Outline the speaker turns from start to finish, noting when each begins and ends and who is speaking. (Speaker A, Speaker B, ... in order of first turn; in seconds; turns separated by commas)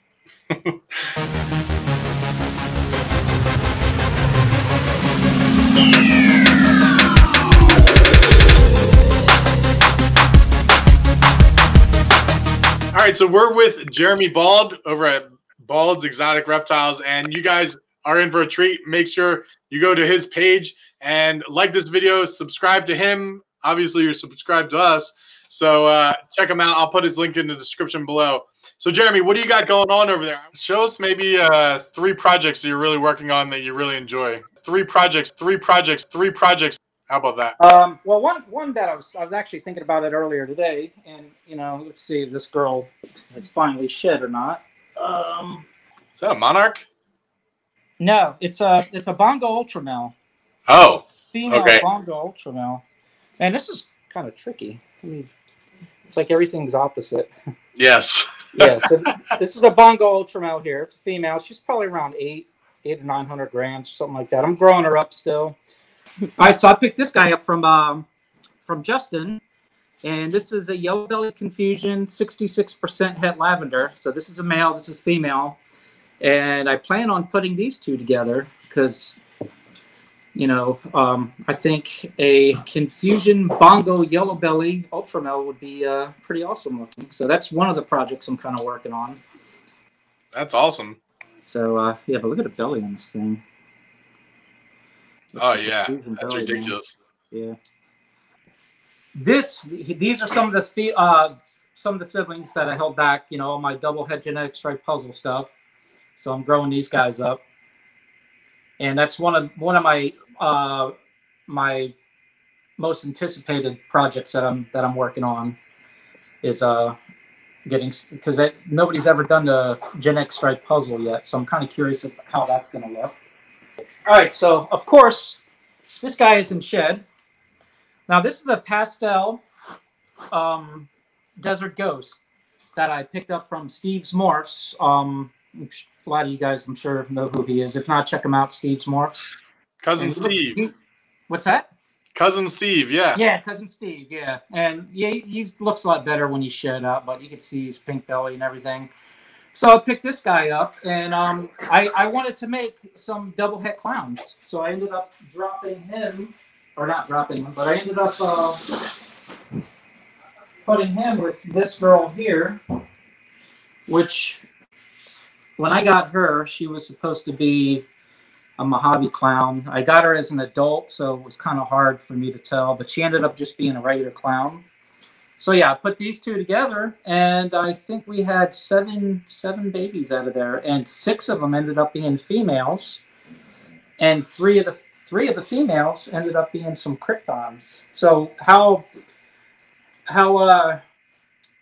Speaker A: 0.5-0.8, Speaker A: 12.9-37.6, Speaker B: 37.6-45.6, Speaker A: 46.1-46.9, Speaker B: 48.0-50.1, Speaker A: 50.7-51.8, Speaker B: 51.3-52.8, Speaker B: 53.4-55.3, Speaker B: 56.1-57.3, Speaker A: 57.8-58.9, Speaker B: 58.5-65.6, Speaker B: 66.4-68.1, Speaker B: 68.7-69.4, Speaker B: 70.0-75.6, Speaker B: 76.2-79.2, Speaker B: 80.3-89.2, Speaker A: 90.3-91.0, Speaker B: 91.4-93.4, Speaker B: 95.3-96.8, Speaker A: 95.4-97.0, Speaker B: 97.3-97.6, Speaker B: 99.2-105.5, Speaker B: 106.2-107.4, Speaker B: 108.8-110.9, Speaker B: 111.5-111.9, Speaker B: 112.8-115.6, Speaker B: 116.4-117.0, Speaker B: 117.7-123.1, Speaker B: 124.1-125.4, Speaker B: 126.0-127.0, Speaker B: 128.1-129.4, Speaker B: 130.3-130.9, Speaker B: 131.4-132.2, Speaker B: 132.8-139.3, Speaker A: 139.8-140.6, Speaker B: 140.0-140.7, Speaker B: 141.3-141.7, Speaker A: 142.2-143.2, Speaker B: 143.2-148.9, Speaker B: 149.5-158.6, Speaker B: 160.7-162.6, Speaker B: 163.9-164.4, Speaker B: 165.6-167.8, Speaker B: 168.6-174.7, Speaker B: 175.4-183.0, Speaker B: 184.0-188.9, Speaker B: 190.1-190.8